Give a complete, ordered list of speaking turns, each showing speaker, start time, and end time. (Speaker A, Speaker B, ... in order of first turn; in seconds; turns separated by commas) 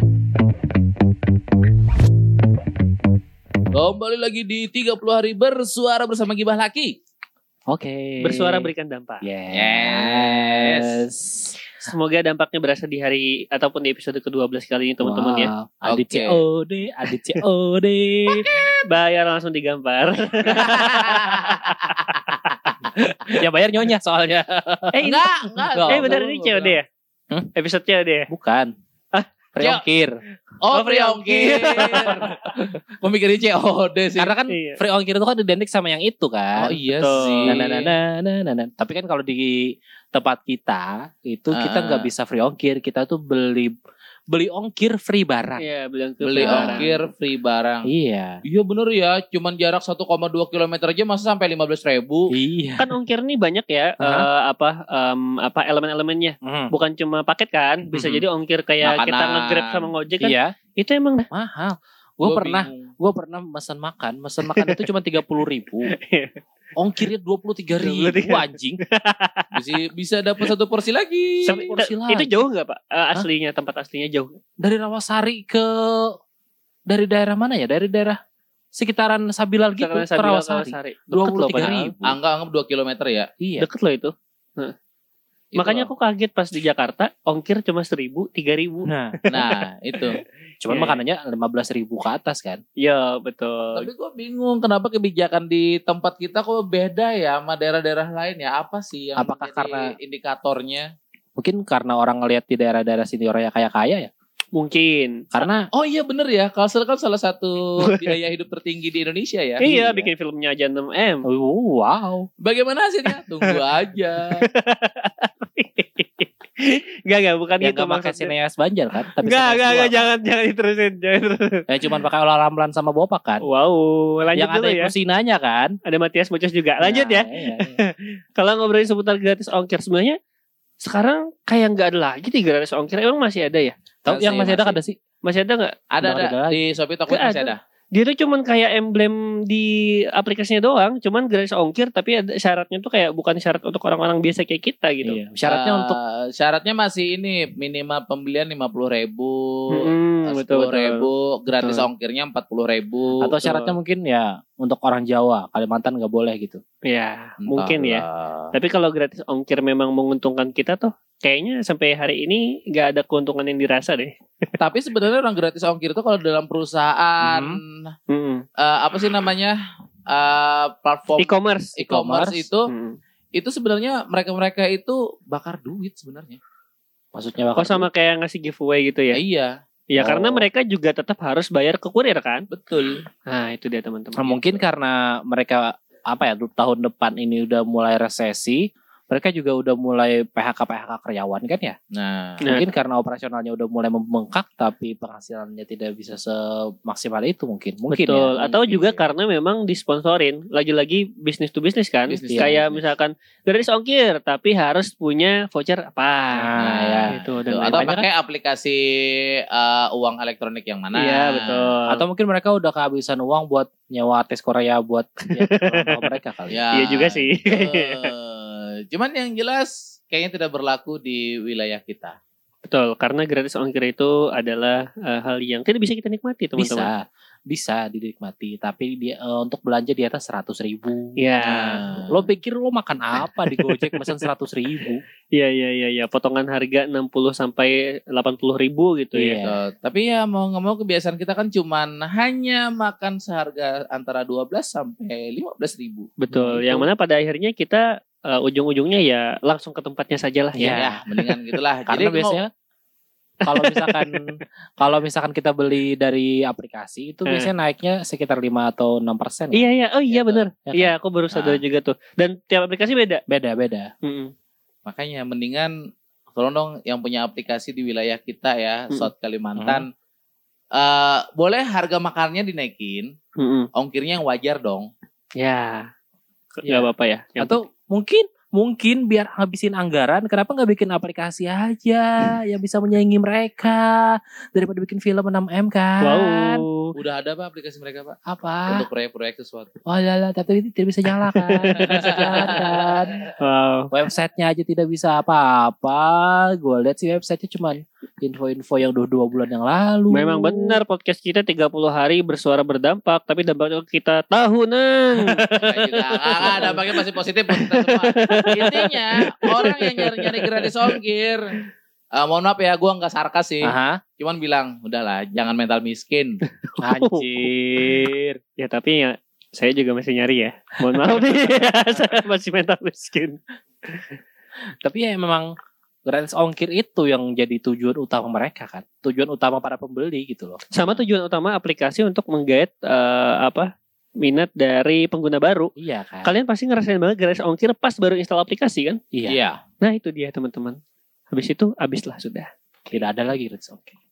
Speaker A: 3.7-6.9, Speaker B: 7.7-8.7, Speaker C: 8.2-9.2, Speaker B: 9.2-11.6, Speaker A: 9.5-11.0, Speaker C: 11.8-15.5, Speaker B: 15.0-18.5, Speaker A: 15.9-16.4, Speaker A: 18.3-18.6, Speaker C: 18.9-22.4, Speaker A: 20.5-22.2, Speaker B: 23.2-25.1, Speaker C: 24.9-25.2, Speaker A: 25.0-26.8, Speaker B: 25.7-26.2, Speaker C: 25.9-26.8, Speaker C: 27.5-28.3, Speaker B: 28.3-28.7, Speaker B: 29.5-30.1, Speaker A: 29.6-29.8, Speaker A: 30.6-34.4, Speaker C: 30.7-32.2, Speaker B: 34.1-36.7, Speaker C: 34.5-34.8, Speaker A: 36.5-38.0, Speaker C: 36.9-37.7, Speaker B: 37.5-43.7, Speaker A: 41.5-42.1, Speaker B: 44.3-45.6, Speaker C: 45.6-46.9, Speaker A: 46.2-47.9, Speaker B: 46.4-46.9, Speaker B: 47.9-48.4, Speaker A: 48.4-52.3, Speaker B: 52.3-52.9, Speaker C: 52.8-61.3, Speaker B: 54.0-54.3, Speaker B: 56.4-56.7, Speaker B: 57.9-58.2, Speaker A: 58.8-59.8, Speaker B: 60.2-60.5, Speaker B: 61.3-65.9, Speaker A: 62.2-62.9, Speaker C: 64.5-64.8, Speaker C: 65.9-66.3, Speaker B: 66.8-68.8, Speaker C: 67.8-69.5, Speaker A: 69.5-71.6, Speaker B: 71.4-72.3, Speaker C: 71.5-74.3, Speaker B: 74.6-76.2, Speaker B: 76.9-78.2, Speaker B: 78.8-82.2, Speaker C: 79.8-82.0, Speaker A: 81.6-83.3, Speaker B: 83.4-83.7, Speaker C: 83.6-84.8, Speaker A: 85.5-85.9, Speaker C: 85.6-89.6, Speaker B: 88.9-89.2, Speaker A: 89.3-90.2, Speaker B: 90.6-92.6, Speaker C: 90.7-91.0, Speaker C: 92.8-93.9, Speaker A: 93.8-100.9, Speaker B: 99.2-99.8, Speaker B: 101.4-104.1, Speaker C: 104.5-105.2, Speaker B: 105.3-105.7, Speaker A: 105.7-109.7, Speaker C: 107.8-108.1, Speaker C: 109.6-111.2, Speaker B: 109.6-110.1, Speaker B: 111.3-112.3, Speaker A: 112.4-114.5, Speaker C: 114.3-118.3, Speaker B: 117.6-120.1, Speaker C: 119.2-121.7, Speaker B: 121.7-123.4, Speaker C: 123.4-124.9, Speaker B: 124.4-125.8, Speaker C: 125.8-130.2, Speaker B: 126.8-127.8, Speaker C: 130.8-135.8, Speaker B: 134.1-135.0, Speaker A: 135.9-137.6, Speaker B: 136.0-136.6, Speaker C: 137.1-145.2, Speaker B: 145.0-146.0, Speaker A: 145.5-153.4, Speaker C: 149.7-151.9, Speaker B: 153.2-156.6, Speaker C: 153.4-153.8, Speaker C: 156.9-164.1, Speaker A: 157.5-158.5, Speaker A: 164.6-167.9, Speaker B: 167.2-167.6, Speaker C: 168.1-168.4, Speaker A: 168.6-169.6, Speaker A: 170.1-172.7, Speaker C: 171.2-171.8, Speaker B: 171.8-172.5, Speaker C: 172.7-173.0, Speaker A: 173.4-176.4, Speaker B: 177.1-177.9, Speaker C: 177.6-179.2, Speaker A: 179.1-179.5, Speaker C: 179.9-182.5, Speaker B: 180.0-180.5, Speaker A: 182.5-183.0, Speaker C: 183.2-184.6, Speaker B: 184.2-191.8, Speaker A: 191.9-192.4, Speaker B: 192.4-199.0, Speaker C: 197.9-206.5, Speaker A: 202.1-202.9, Speaker B: 202.3-202.6, Speaker B: 206.3-207.2, Speaker A: 206.6-208.8, Speaker C: 207.1-208.0, Speaker B: 207.7-208.1, Speaker A: 209.5-211.6, Speaker C: 210.9-212.0, Speaker B: 211.9-216.6, Speaker C: 215.5-216.0, Speaker A: 216.5-222.2, Speaker C: 216.7-218.1, Speaker C: 222.7-226.9, Speaker B: 226.6-231.2, Speaker C: 231.2-231.8, Speaker A: 231.4-232.3, Speaker B: 232.1-235.0, Speaker C: 233.6-234.2, Speaker C: 235.3-239.4, Speaker B: 239.1-239.6, Speaker A: 239.4-246.1, Speaker C: 246.2-250.9, Speaker B: 246.3-246.9, Speaker B: 250.6-251.0, Speaker A: 250.7-252.4, Speaker B: 251.9-252.5, Speaker B: 253.4-254.2, Speaker C: 253.4-254.1, Speaker B: 254.8-259.7, Speaker C: 259.5-263.2, Speaker A: 260.1-260.4, Speaker B: 260.5-260.9, Speaker A: 261.3-261.6, Speaker B: 263.3-263.9, Speaker C: 264.0-264.3, Speaker A: 264.9-265.8, Speaker A: 266.4-269.9, Speaker B: 269.6-269.8, Speaker A: 270.8-273.1, Speaker C: 273.4-273.7, Speaker A: 273.8-274.9, Speaker C: 275.4-275.9, Speaker B: 276.6-276.9, Speaker C: 276.6-277.6, Speaker B: 277.4-286.6, Speaker C: 286.0-286.9, Speaker A: 286.9-288.2, Speaker B: 288.3-288.9, Speaker A: 288.7-289.7, Speaker B: 289.9-293.2, Speaker C: 291.1-292.5, Speaker A: 291.8-293.2, Speaker C: 293.4-293.9, Speaker B: 293.9-300.8, Speaker C: 300.1-305.6, Speaker B: 305.2-305.9, Speaker A: 305.6-311.5, Speaker C: 306.4-307.0, Speaker C: 307.6-308.9, Speaker C: 309.4-310.2, Speaker A: 312.2-316.4, Speaker B: 313.6-314.0, Speaker C: 316.8-317.5, Speaker B: 316.8-318.4, Speaker C: 318.6-323.4, Speaker B: 324.8-325.5, Speaker B: 326.1-331.0, Speaker C: 330.7-333.7, Speaker C: 334.2-335.7, Speaker B: 335.8-336.3, Speaker C: 336.2-339.0, Speaker B: 339.1-339.4, Speaker A: 339.2-339.6, Speaker C: 339.8-340.8, Speaker C: 341.3-342.5, Speaker B: 342.9-343.9